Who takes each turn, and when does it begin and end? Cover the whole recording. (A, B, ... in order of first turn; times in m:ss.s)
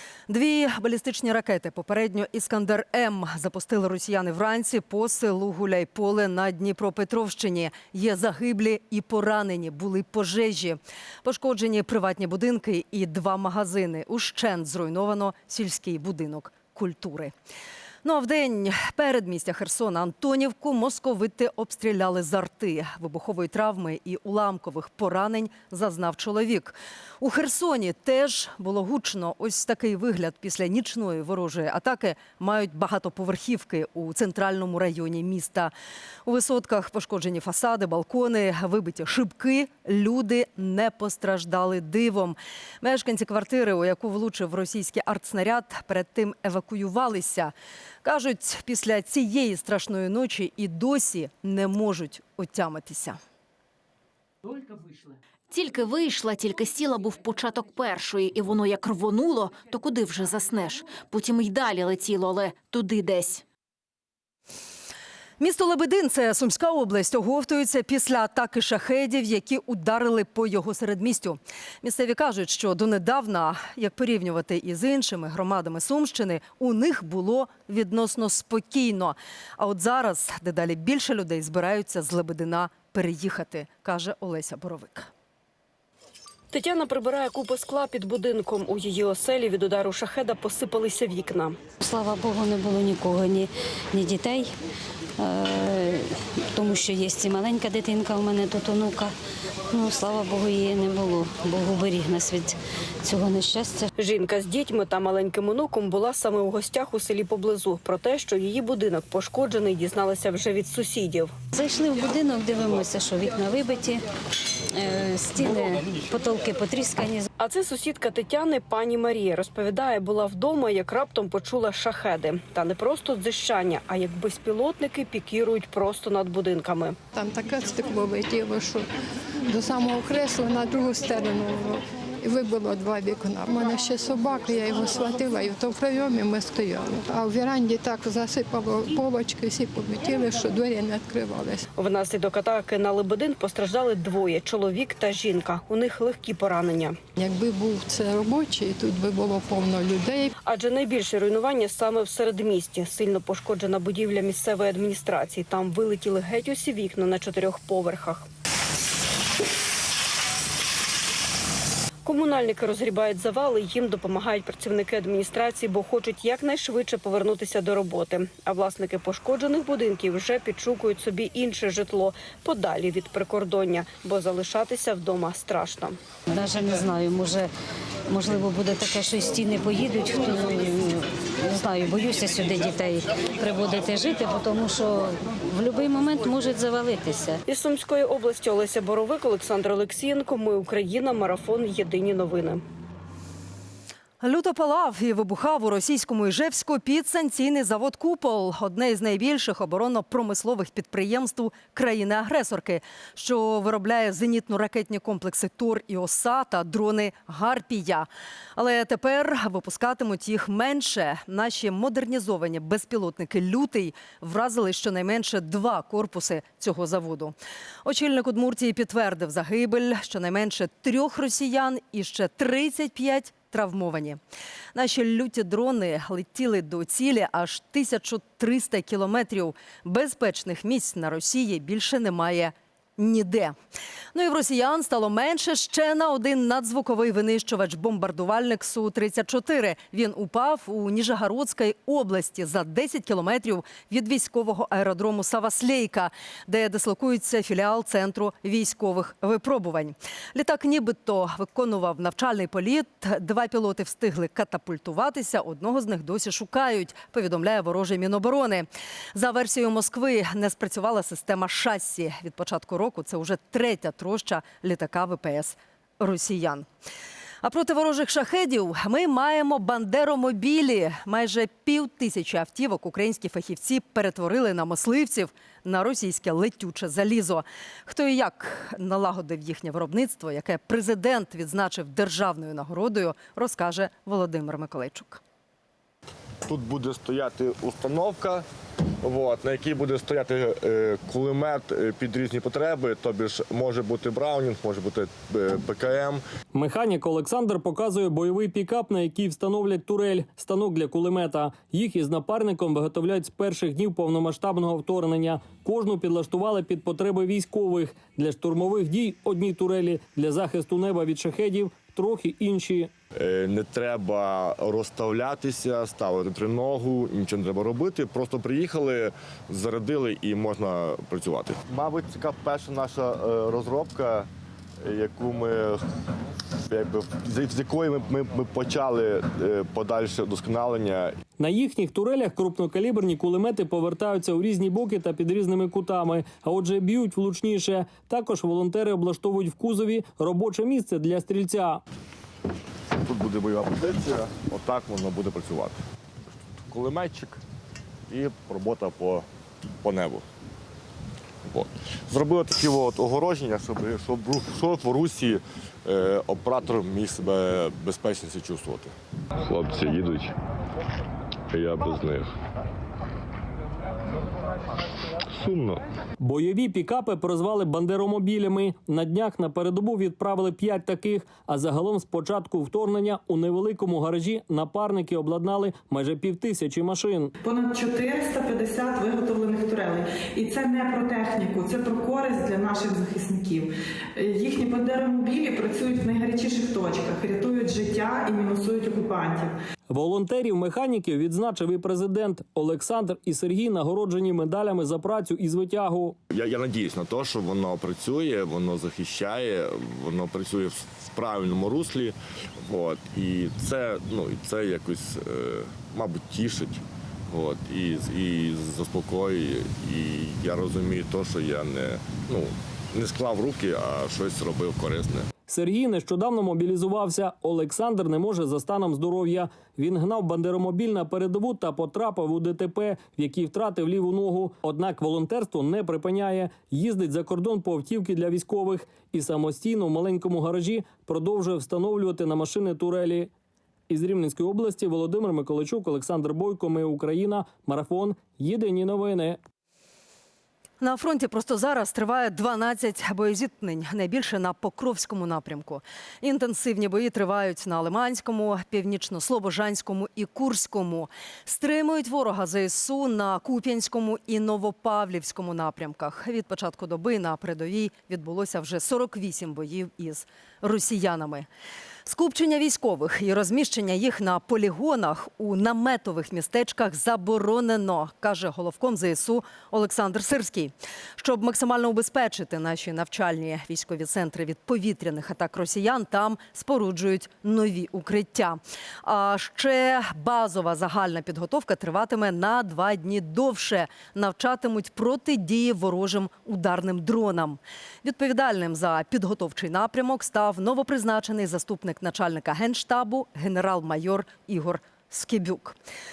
0:00.3-0:17.3 A
0:18.0-0:35.7 A
0:36.2-0:53.2 A
0:55.5-1:03.4 B
1:05.4-1:25.1 A
1:26.5-1:31.6 C
1:31.8-1:34.5 D
1:35.2-1:39.1 D
1:39.7-1:43.9 D
1:44.0-1:51.4 C
1:51.5-1:54.0 D
1:54.7-1:57.2 D
1:57.4-2:07.0 C
2:07.1-2:08.9 E
2:09.5-2:21.6 E
2:21.8-2:27.0 C
2:27.2-2:30.3 E
2:30.4-2:38.3 C
2:42.0-2:56.0 C
2:56.3-2:57.5 D
2:58.1-3:07.4 D
3:07.5-3:12.6 C
3:14.2-3:44.2 A
3:44.7-3:53.6 A
3:54.1-4:26.7 A
4:27.4-4:45.2 A
4:46.5-4:48.5 F
4:49.0-4:56.2 F
4:56.5-5:12.9 G
5:13.2-5:24.3 F
5:24.8-5:25.8 F
5:26.7-5:31.2 F
5:31.4-5:41.8 G
5:43.0-5:45.8 F
5:46.6-5:47.4 F
5:48.1-5:49.3 F
5:49.8-5:50.2 F
5:51.5-6:00.4 F
6:01.5-6:02.4 F
6:05.3-6:05.8 F
6:06.2-6:17.3 G
6:17.4-6:29.5 H
6:29.9-6:36.2 G
6:36.3-6:42.2 F
6:42.7-6:55.3 F
6:55.5-7:13.3 G
7:13.9-7:19.4 G
7:20.8-7:41.5 A
7:42.0-8:15.8 A